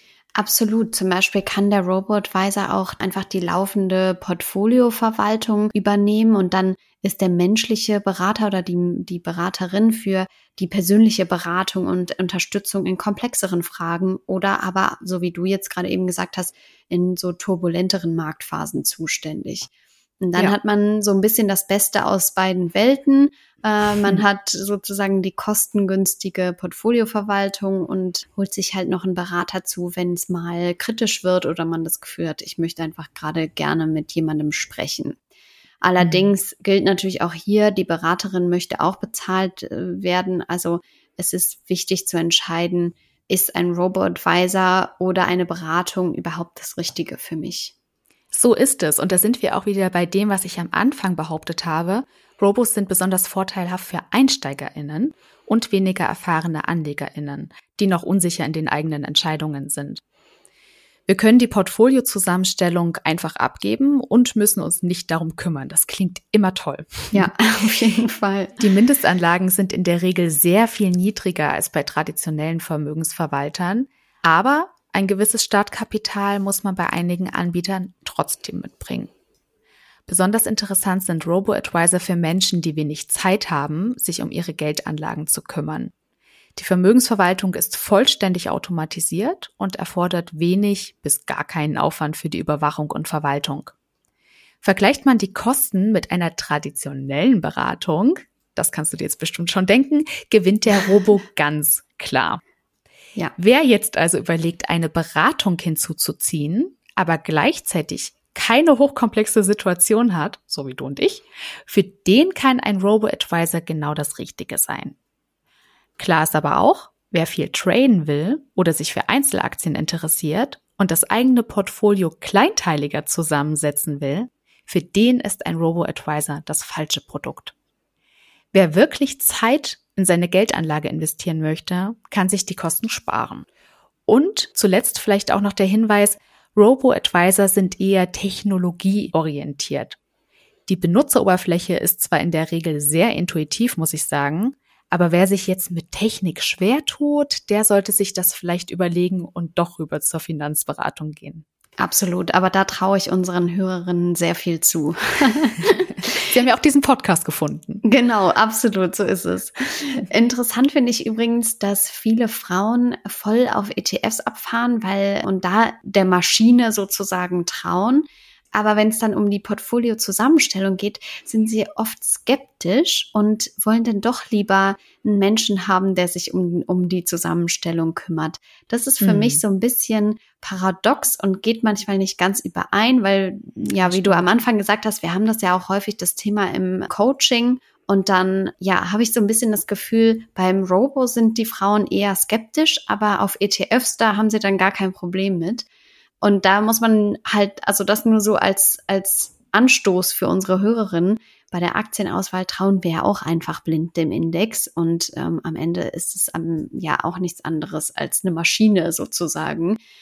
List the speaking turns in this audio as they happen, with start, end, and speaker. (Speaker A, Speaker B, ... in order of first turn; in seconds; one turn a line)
Speaker A: 0.3-19.7
Speaker A: 20.2-35.2
Speaker A: 35.8-47.7
Speaker B: 36.0-36.3
Speaker B: 48.3-60.0
Speaker B: 61.1-67.3
Speaker A: 67.1-68.6
Speaker B: 68.6-79.1
Speaker B: 80.1-85.9
Speaker B: 86.5-93.7
Speaker B: 94.6-102.4
Speaker B: 103.4-114.9
Speaker B: 116.0-127.5
Speaker B: 128.5-133.4
Speaker B: 134.1-140.0
Speaker B: 140.7-151.4
Speaker A: 151.8-156.0
Speaker B: 155.9-157.8
Speaker A: 157.8-195.7
Speaker B: 179.0-179.4
Speaker B: 183.6-184.2
Speaker A: 196.2-209.8